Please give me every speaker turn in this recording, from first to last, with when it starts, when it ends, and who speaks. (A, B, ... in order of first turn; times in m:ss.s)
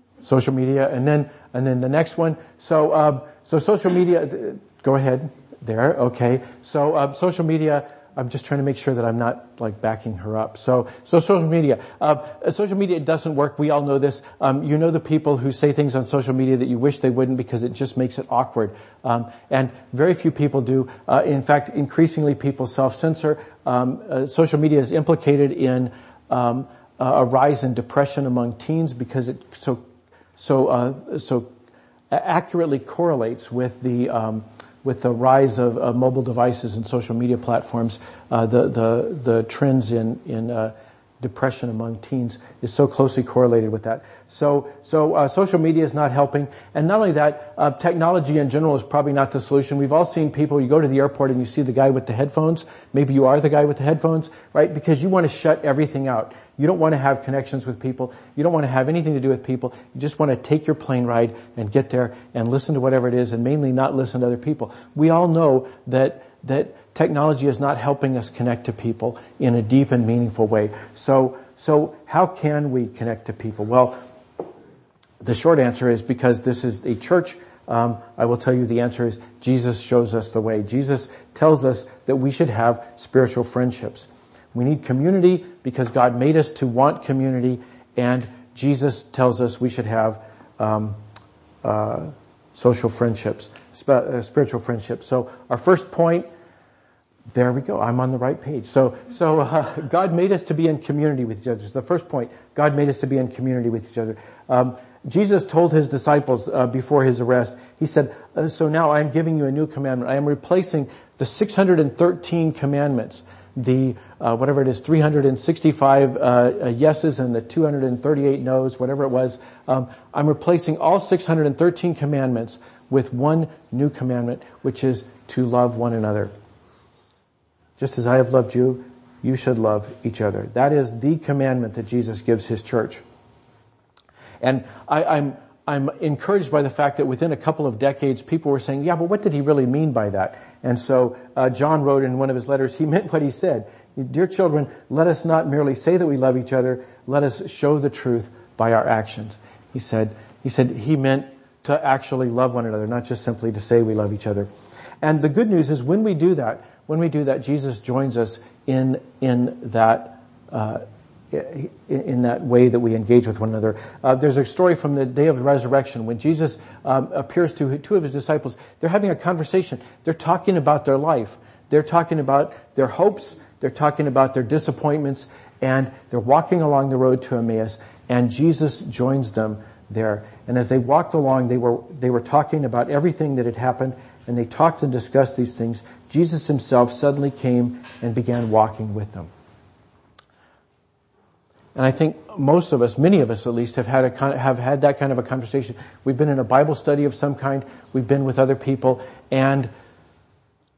0:00.2-0:29.8 A
0:30.4-0:31.5 A
0:32.1-1:14.0 A
1:15.2-1:31.0 A
1:31.6-1:36.3 A
1:37.3-2:06.3 A
2:07.8-2:13.0 A
2:14.4-2:34.5 A
2:35.0-3:09.3 A
3:11.8-3:19.7 A